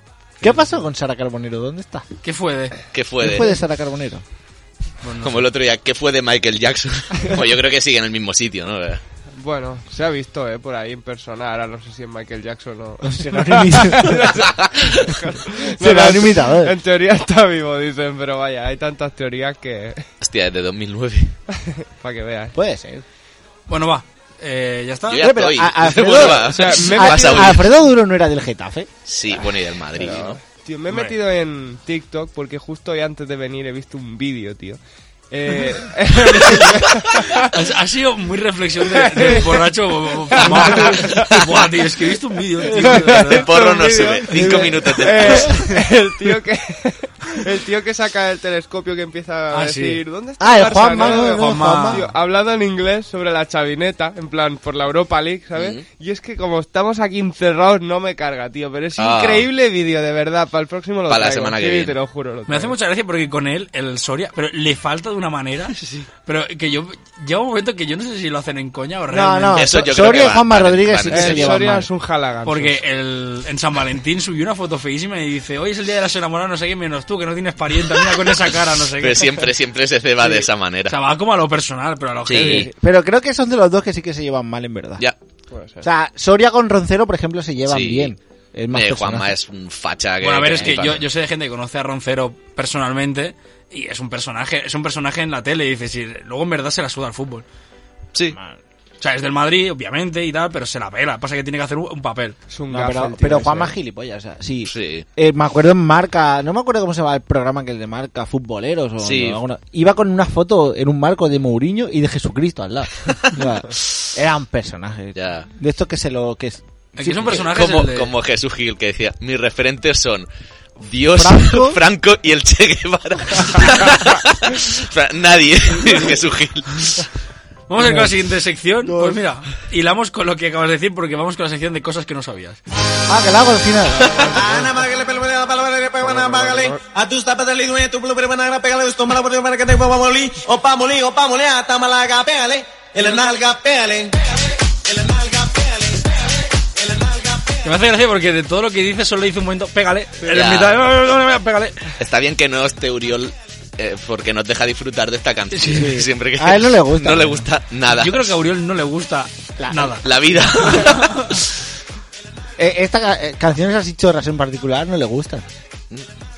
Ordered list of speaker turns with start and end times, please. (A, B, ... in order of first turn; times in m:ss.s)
0:00.4-0:02.0 A
0:00.4-0:00.8 B
0:02.2-0:02.8 C
0:02.9-0:03.5 D
0:03.2-0:04.2 A
0:05.0-0:05.4 C
0:05.2-0:09.0 D
0:09.4-0:20.1 B
0:13.0-0:14.3 A
0:15.8-0:16.8 A
0:20.2-0:21.4 D
0:21.9-0:22.5 B
0:22.5-0:23.0 A
0:23.7-0:25.2 C
0:25.1-0:27.6 D
0:25.2-0:28.9 A
0:26.4-0:27.6 B
0:29.1-0:30.4 D
0:30.0-0:37.5 B
0:30.9-0:31.2 C
0:37.5-0:43.5 C
0:38.8-0:39.7 B
0:40.3-0:41.5 B
0:42.7-1:02.8 B
0:43.2-0:45.6 D
0:44.4-0:45.6 A
0:49.5-0:50.0 C
0:50.4-0:52.0 A
0:51.0-0:52.1 C
0:55.6-0:55.8 D
0:59.0-0:59.5 D
1:01.1-1:02.0 D
1:02.5-1:09.6 C
1:09.1-1:11.9 A
1:09.6-1:11.6 D
1:11.1-1:12.8 B
1:12.4-1:19.3 C
1:19.0-1:21.0 D
1:20.9-1:22.6 C
1:22.3-1:22.7 D
1:22.4-1:25.0 A
1:25.5-1:25.9 B
1:25.8-1:29.3 A
1:27.7-1:28.2 D
1:28.7-1:31.0 D
1:30.2-1:37.4 C
1:39.0-1:42.4 C
1:42.5-1:43.7 B
1:42.7-1:57.4 A
1:44.7-1:45.0 D
1:49.0-1:49.4 D
1:55.2-1:55.5 D
1:57.0-1:58.1 C
1:57.3-2:00.3 D
2:00.8-2:07.1 D
2:01.2-2:01.8 A
2:07.7-2:12.6 C
2:07.8-2:08.1 A
2:08.8-2:09.2 A
2:13.1-2:14.6 A
2:14.4-2:24.2 E
2:16.0-2:16.8 B
2:24.8-2:27.7 E
2:27.6-2:31.8 C
2:30.3-2:30.8 D
2:32.0-2:38.3 D
2:35.5-2:36.0 C
2:35.8-2:37.4 A
2:38.0-2:40.0 C
2:39.6-2:40.0 A
2:40.0-2:41.4 D
2:40.6-2:41.3 C
2:42.6-2:45.5 A